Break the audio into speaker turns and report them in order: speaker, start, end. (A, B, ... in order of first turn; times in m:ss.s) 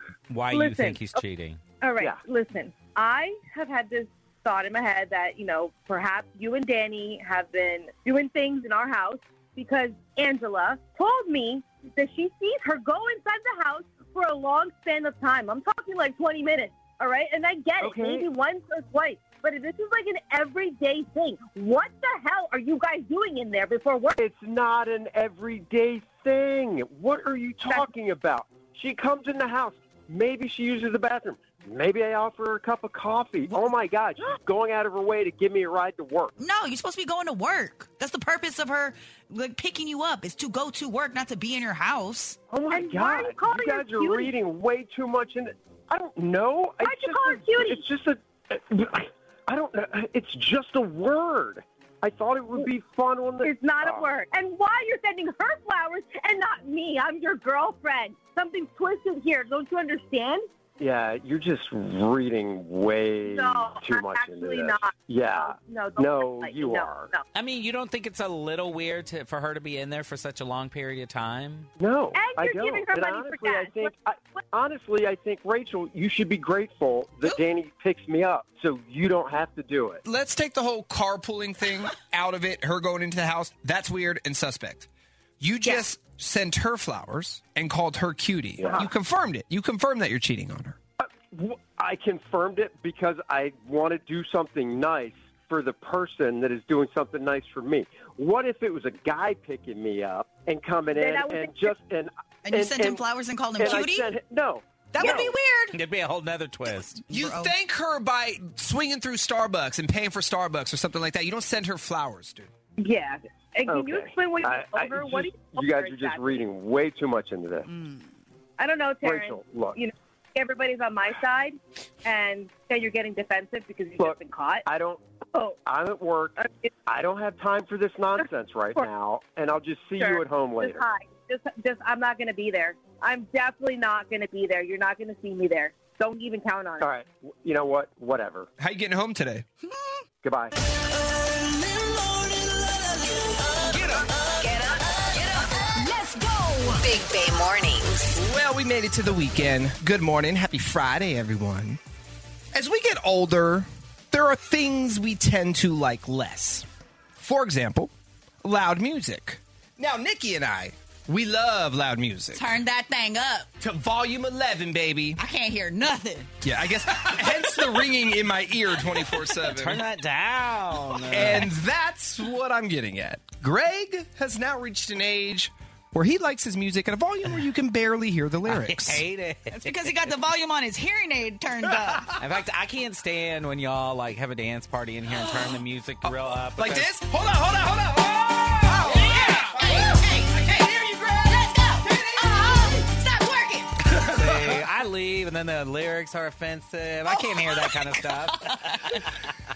0:00.3-0:01.6 A
0:00.5-0:01.1 B
0:01.8-0:24.2 B
0:17.8-0:18.3 C
0:24.2-0:36.3 C
0:33.5-0:33.7 D
0:36.4-0:42.4 D
0:42.5-0:54.1 C
0:42.7-0:44.3 B
0:46.8-0:47.8 B
0:53.4-1:00.4 B
1:00.8-1:07.1 C
1:03.2-1:07.2 B
1:07.3-1:11.7 A
1:11.8-1:20.0 C
1:12.2-1:13.9 B
1:20.0-1:24.9 E
1:25.4-1:30.8 E
1:28.6-1:28.9 C
1:31.0-1:43.0 C
1:40.9-1:41.8 B
1:42.4-1:44.2 D
1:43.6-1:45.4 C
1:44.9-1:45.8 D
1:45.7-1:47.0 A
1:47.0-1:47.5 D
1:47.1-1:52.5 E
1:52.8-1:56.4 B
1:53.7-1:57.7 C
1:57.7-1:58.1 D
1:58.6-2:04.6 B
1:59.0-1:59.8 C
2:04.0-2:05.0 C
2:05.6-2:10.8 C
2:10.0-2:16.9 B
2:16.8-2:18.5 C
2:18.6-2:19.4 E
2:20.2-2:20.5 C
2:21.5-2:22.7 D
2:24.4-2:25.2 F
2:25.2-2:26.8 D
2:26.8-2:28.2 F
2:28.2-2:31.8 E
2:32.5-2:36.7 E
2:37.2-2:37.9 E
2:38.4-2:42.5 E
2:42.4-2:43.5 D
2:43.6-2:45.2 E
2:45.2-2:46.3 D
2:46.4-2:49.8 E
2:49.4-2:51.5 A
2:51.1-2:59.0 E
2:58.5-3:00.0 A
2:59.5-3:02.1 D
3:02.1-3:06.9 A
3:06.6-3:12.6 E
3:08.7-3:13.9 D
3:14.0-3:14.6 E
3:14.0-3:19.0 A
3:17.2-3:18.7 D